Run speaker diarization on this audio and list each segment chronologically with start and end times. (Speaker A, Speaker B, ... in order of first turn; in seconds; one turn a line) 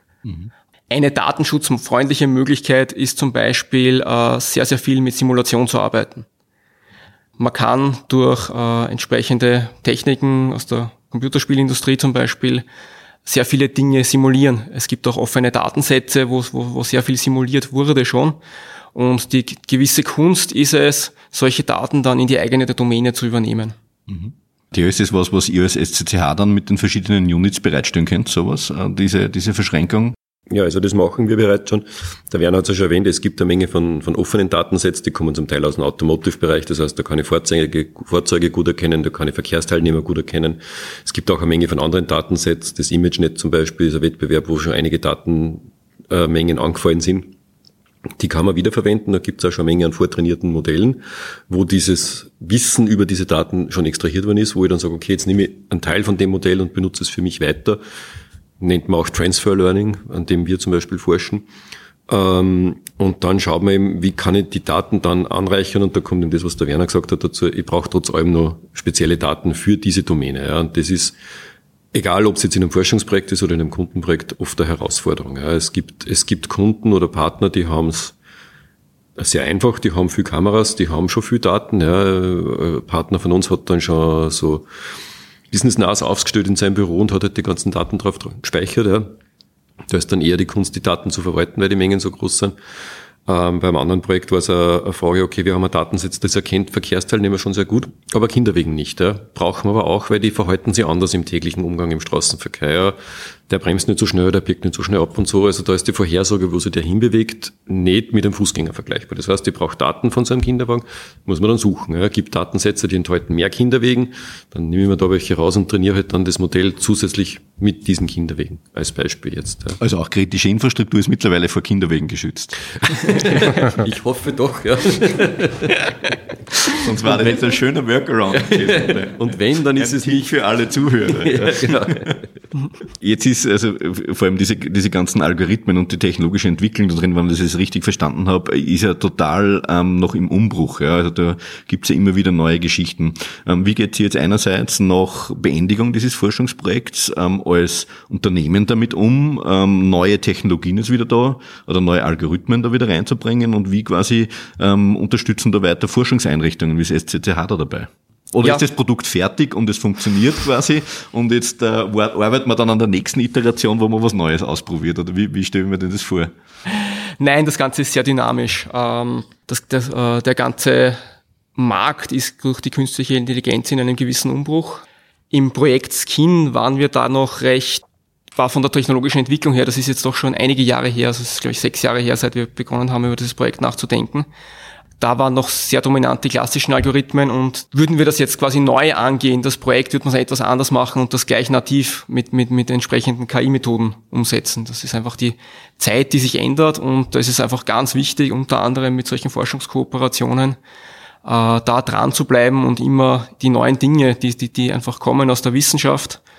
Speaker A: 0.2-0.5
Speaker B: 0.9-6.3
Speaker B: 7.4-12.7
Speaker B: 13.2-18.4
Speaker B: 18.9-23.8
Speaker A: 24.1-30.1
Speaker C: 30.5-47.3
Speaker C: 48.2-57.8
Speaker C: 58.6-61.5
Speaker C: 62.1-71.2
Speaker C: 71.9-78.2
Speaker C: 79.2-84.7
Speaker C: 85.5-89.2
Speaker C: 89.9-92.5
Speaker C: 93.3-103.0
Speaker C: 103.5-119.8
Speaker A: 119.8-122.6
Speaker C: 122.9-125.9
Speaker A: 126.7-132.2
Speaker C: 128.4-130.3
Speaker C: 131.2-132.2
Speaker A: 132.9-166.3
Speaker B: 166.7-171.0
Speaker B: 171.6-177.8
Speaker B: 178.4-184.3
Speaker B: 185.0-200.6
Speaker B: 201.2-206.2